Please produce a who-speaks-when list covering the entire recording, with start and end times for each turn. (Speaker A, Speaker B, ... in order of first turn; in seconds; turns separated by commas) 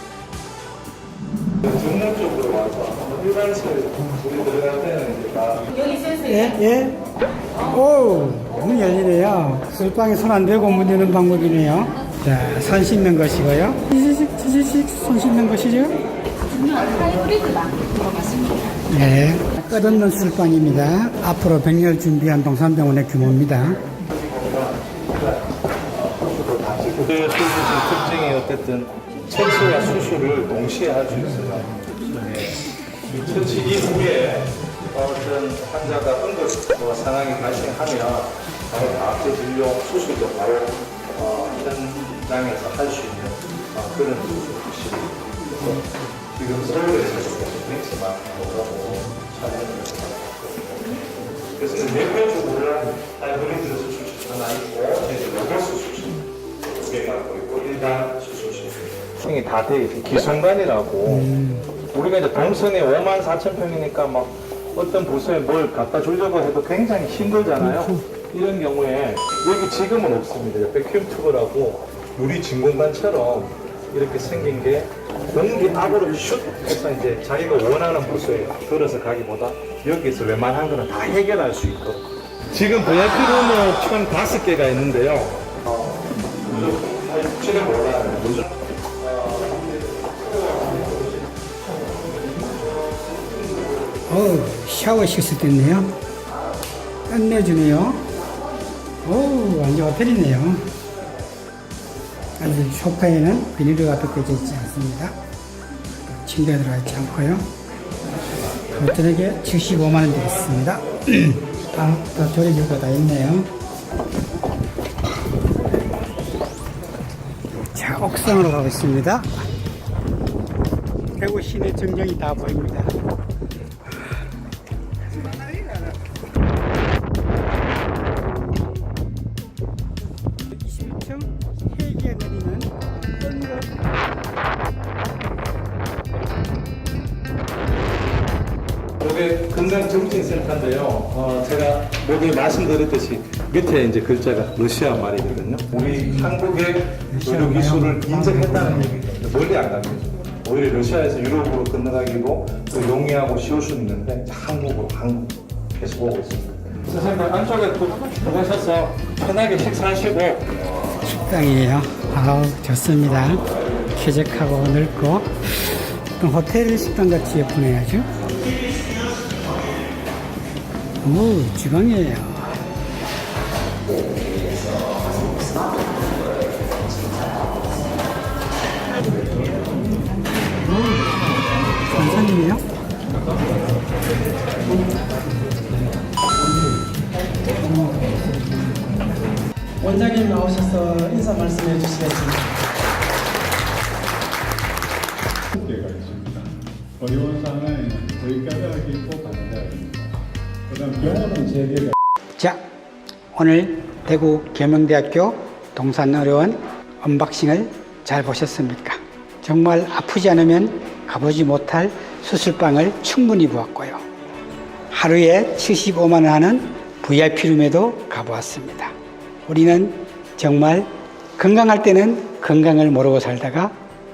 Speaker A: 1.6-6.0, Speaker B: 6.1-7.0, Speaker B: 7.6-16.0, Speaker B: 18.9-23.8, Speaker A: 24.1-25.6, Speaker A: 26.1-61.4, Speaker B: 61.2-61.6, Speaker A: 61.9-91.2, Speaker A: 92.4-94.0, Speaker B: 94.1-95.9, Speaker B: 97.1-98.0, Speaker B: 99.0-100.7, Speaker B: 102.4-105.2, Speaker B: 106.1-107.5, Speaker B: 108.7-113.5, Speaker B: 117.7-119.4, Speaker B: 121.1-123.0, Speaker B: 130.5-133.7, Speaker A: 139.0-160.6, Speaker B: 147.1-148.8, Speaker B: 161.1-168.1, Speaker B: 171.0-172.5, Speaker B: 181.8-182.6, Speaker C: 189.8-192.5, Speaker D: 195.5-201.9, Speaker B: 203.3-214.0, Speaker B: 214.9-218.9, Speaker B: 219.5-223.7